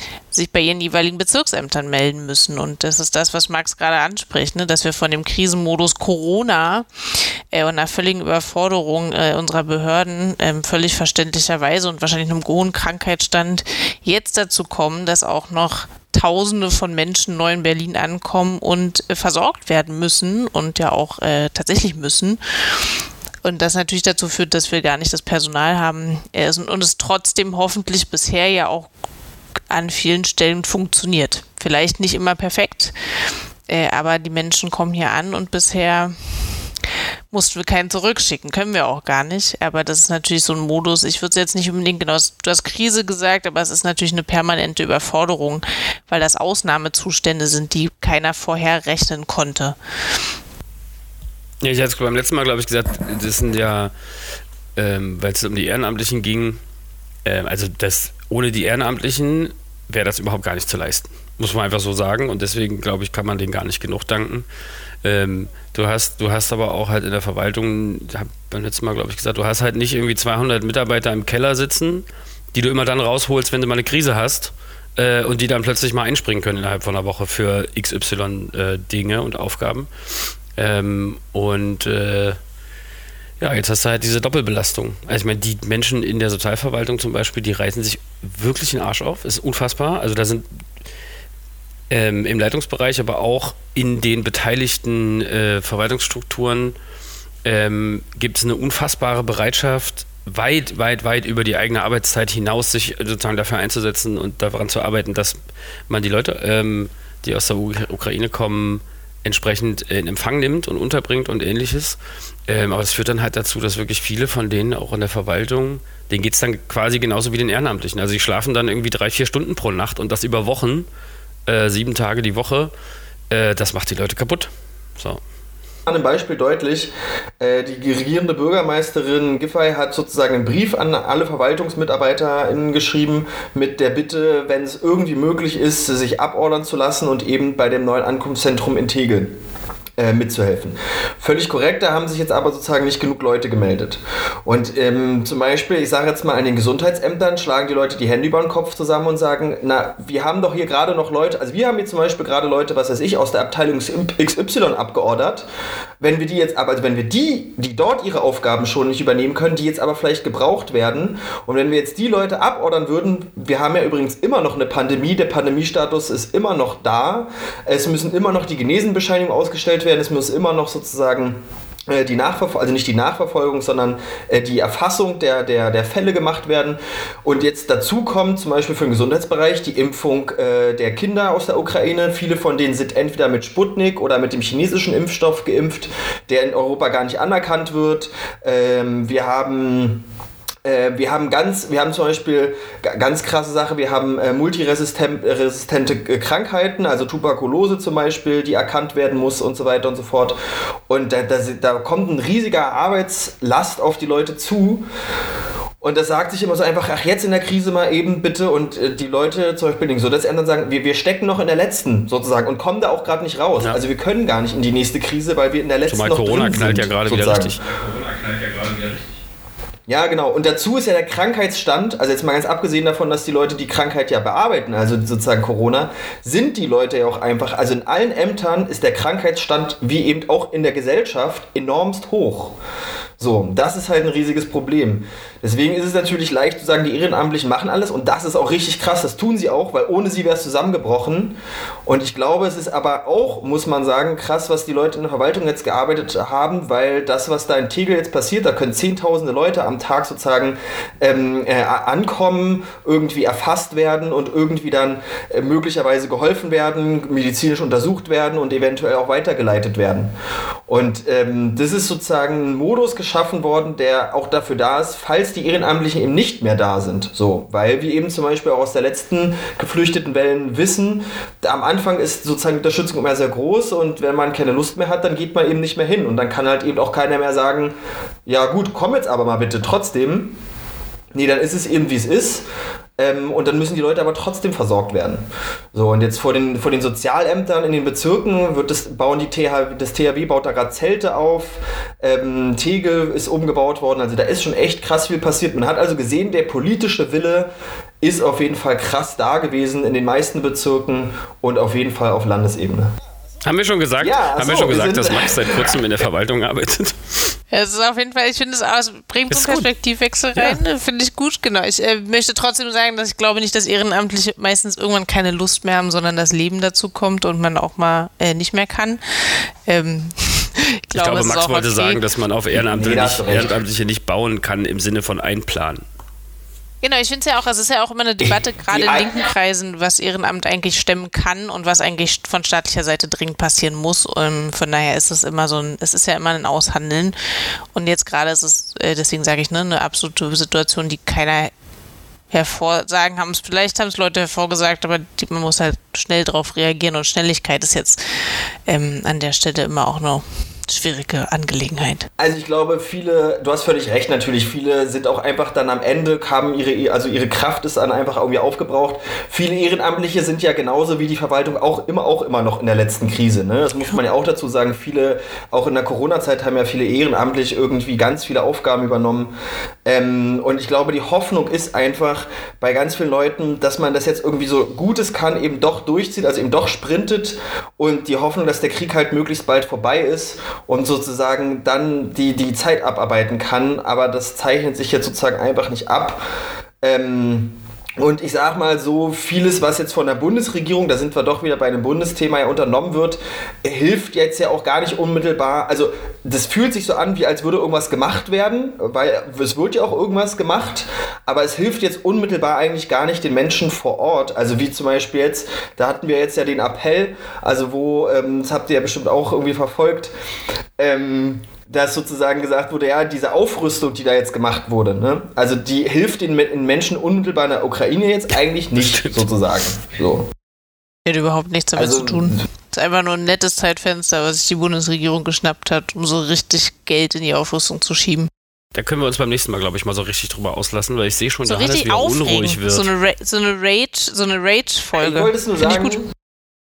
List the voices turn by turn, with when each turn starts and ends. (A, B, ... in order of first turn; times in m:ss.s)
0:00.3-0:22.4 A
0:23.4-0:28.9 A
0:29.7-0:32.9 A
0:33.7-0:36.5 A
0:37.3-0:49.8 A
0:51.6-0:53.9 B
0:54.8-0:56.6 B
0:57.2-1:04.5 B
1:05.0-1:19.9 B
1:20.5-1:22.4 B
1:23.4-1:30.5 B
1:31.9-1:36.8 B
1:37.4-2:00.9 B
2:01.5-2:02.7 B
2:03.3-2:05.2 B
2:05.8-2:19.4 C
2:20.0-2:35.4 C
2:36.0-3:10.0 C
3:10.6-3:20.4 C
3:20.9-3:24.8 C
3:25.8-3:37.6 C
3:35.9-3:39.2 B
3:39.9-3:52.6 C
3:53.2-4:01.4 C
4:01.9-4:20.1 C
4:20.7-4:37.7 C
4:38.3-4:40.4 C
4:41.1-4:42.4 C
4:43.0-4:57.5 C
4:58.0-5:02.9 C
5:03.4-5:07.3 B
5:04.0-5:05.7 C
5:07.5-5:22.0 A
5:09.3-5:09.7 B
5:20.9-5:25.8 B
5:22.5-5:23.6 C
5:26.8-5:37.1 A
5:28.2-5:29.1 C
5:37.7-5:41.5 A
5:42.3-5:52.1 A
5:52.2-6:09.3 C
6:09.8-6:26.2 C
6:26.8-6:50.1 C
6:50.8-7:00.3 C
6:58.7-6:59.3 B
7:01.0-7:08.3 A
7:01.7-7:02.4 C
7:08.7-7:12.9 B
7:11.4-7:16.0 A
7:15.0-7:16.0 C